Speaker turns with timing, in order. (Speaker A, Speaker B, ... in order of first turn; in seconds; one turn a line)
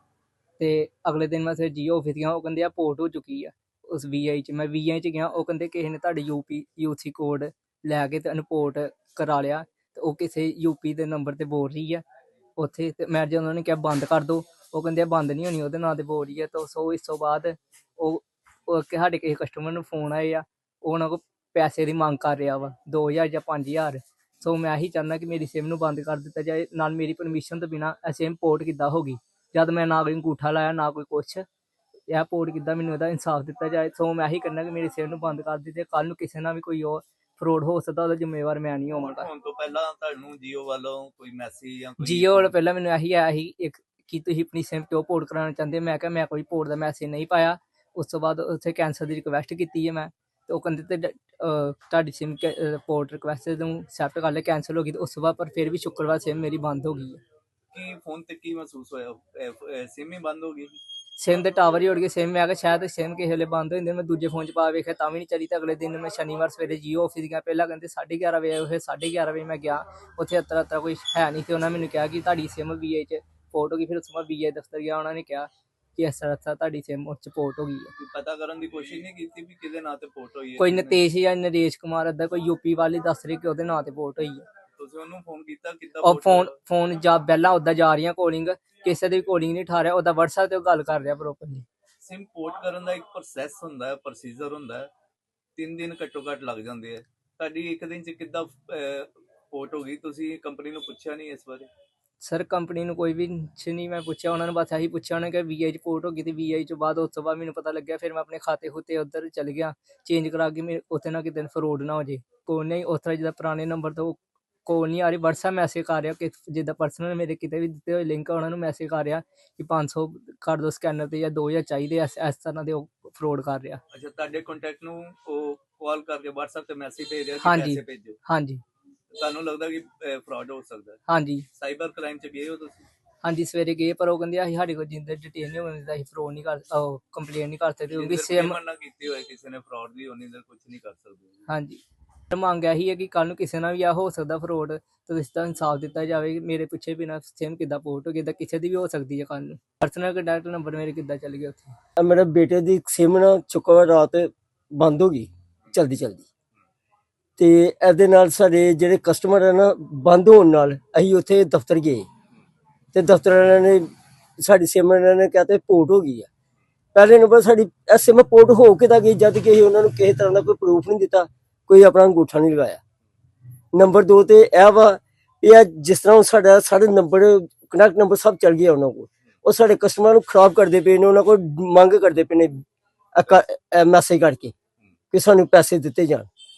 Speaker A: 0.6-12.0
Speaker A: 12.6-31.4
Speaker A: 32.1-39.3
Speaker B: 39.0-42.5
Speaker A: 42.0-57.2
Speaker B: 57.7-60.7
Speaker A: 61.2-77.9
Speaker B: 78.0-81.0
Speaker A: 80.6-84.4
Speaker B: 84.7-86.5
Speaker A: 86.0-91.7
Speaker B: 92.0-94.9
Speaker B: 95.5-101.7
Speaker A: 102.2-123.8
Speaker B: 123.9-128.2
Speaker A: 127.4-128.6
Speaker B: 129.1-131.0
Speaker A: 131.1-131.4
Speaker B: 131.5-132.9
Speaker A: 133.2-138.6
Speaker B: 137.9-141.4
Speaker A: 141.5-151.8
Speaker C: 152.0-156.2
Speaker C: 157.4-162.1
Speaker C: 162.9-166.3
Speaker C: 166.9-172.8
Speaker C: 173.7-182.5
Speaker C: 183.1-184.5
Speaker C: 185.1-186.3